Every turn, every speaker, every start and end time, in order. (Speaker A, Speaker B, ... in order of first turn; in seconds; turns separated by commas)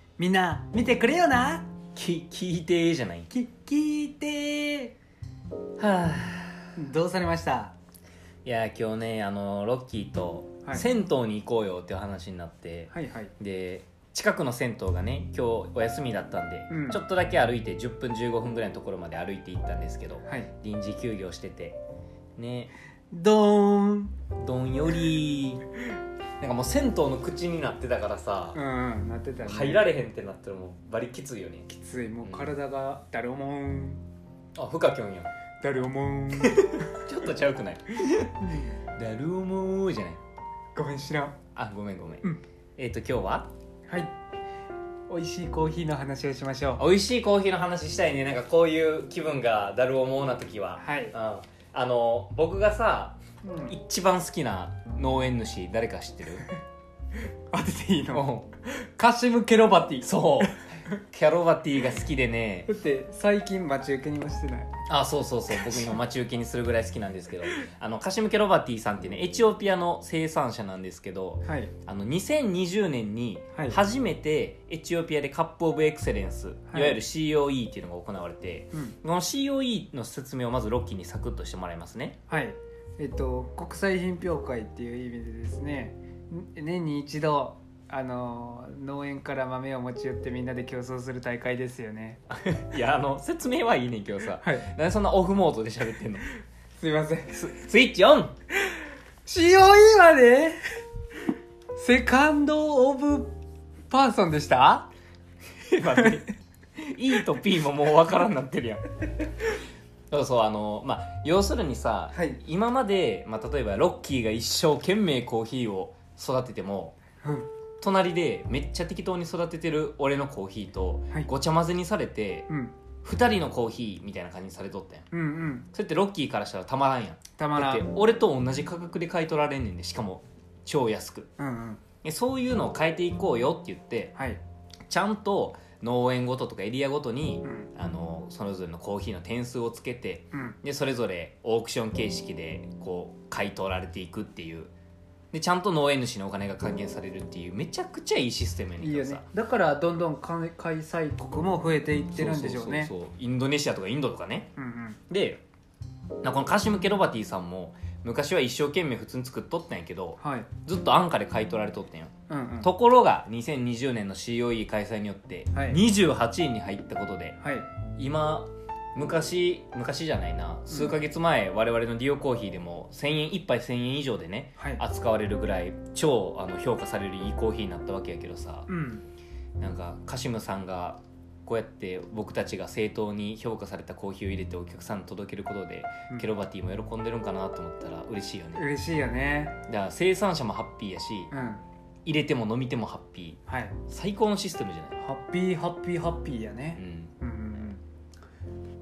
Speaker A: 0.2-1.7, Speaker B: 1.9-3.3, Speaker A: 3.3-4.9, Speaker B: 5.8-6.8, Speaker A: 6.8-7.7, Speaker B: 8.4-21.8, Speaker A: 12.9-13.3, Speaker A: 16.7-17.0, Speaker B: 22.4-22.7, Speaker A: 23.1-24.1, Speaker B: 24.3-25.6, Speaker B: 26.4-28.6, Speaker A: 28.5-29.9, Speaker B: 29.4-31.7, Speaker A: 31.7-34.0, Speaker B: 32.2-32.5, Speaker B: 34.5-35.3, Speaker A: 35.6-36.9, Speaker B: 36.4-40.2, Speaker A: 38.4-38.7, Speaker A: 40.7-41.4, Speaker B: 41.5-43.5, Speaker A: 43.9-44.1, Speaker A: 45.1-46.8, Speaker B: 46.8-56.5, Speaker A: 50.8-51.1, Speaker A: 53.4-53.7, Speaker A: 57.5-60.7, Speaker B: 58.1-58.5, Speaker B: 60.0-60.6, Speaker B: 61.1-62.7, Speaker A: 62.7-64.7, Speaker B: 64.9-82.2, Speaker A: 71.4-71.7, Speaker A: 76.7-77.0, Speaker A: 82.3-92.2, Speaker B: 92.3-96.3, Speaker A: 94.4-94.7, Speaker A: 96.8-97.5, Speaker B: 97.3-98.3, Speaker A: 99.2-100.6, Speaker A: 101.8-103.3, Speaker A: 103.9-104.9, Speaker B: 105.7-108.9, Speaker B: 110.1-117.0, Speaker A: 112.1-112.4, Speaker A: 117.2-117.5, Speaker B: 117.8-122.5, Speaker A: 122.5-122.7, Speaker B: 123.0-125.0, Speaker A: 125.1-125.7, Speaker B: 125.7-131.3, Speaker A: 127.4-127.8, Speaker A: 131.4-131.8, Speaker B: 132.0-134.1, Speaker A: 134.2-134.4, Speaker B: 134.9-144.7, Speaker B: 145.3-149.2, Speaker A: 148.8-152.9, Speaker B: 152.1-154.5, Speaker A: 154.6-155.0, Speaker B: 155.1-155.4, Speaker B: 156.2-167.4, Speaker A: 160.2-160.5, Speaker A: 162.3-162.7, Speaker A: 165.5-165.8, Speaker A: 167.4-167.7, Speaker B: 168.0-178.7, Speaker A: 170.7-170.9, Speaker A: 178.7-179.0, Speaker B: 179.6-188.7, Speaker A: 188.6-189.6, Speaker B: 189.7-191.3, Speaker A: 191.3-191.6, Speaker B: 192.0-195.0, Speaker A: 193.5-193.8, Speaker A: 195.0-197.8, Speaker B: 196.8-197.1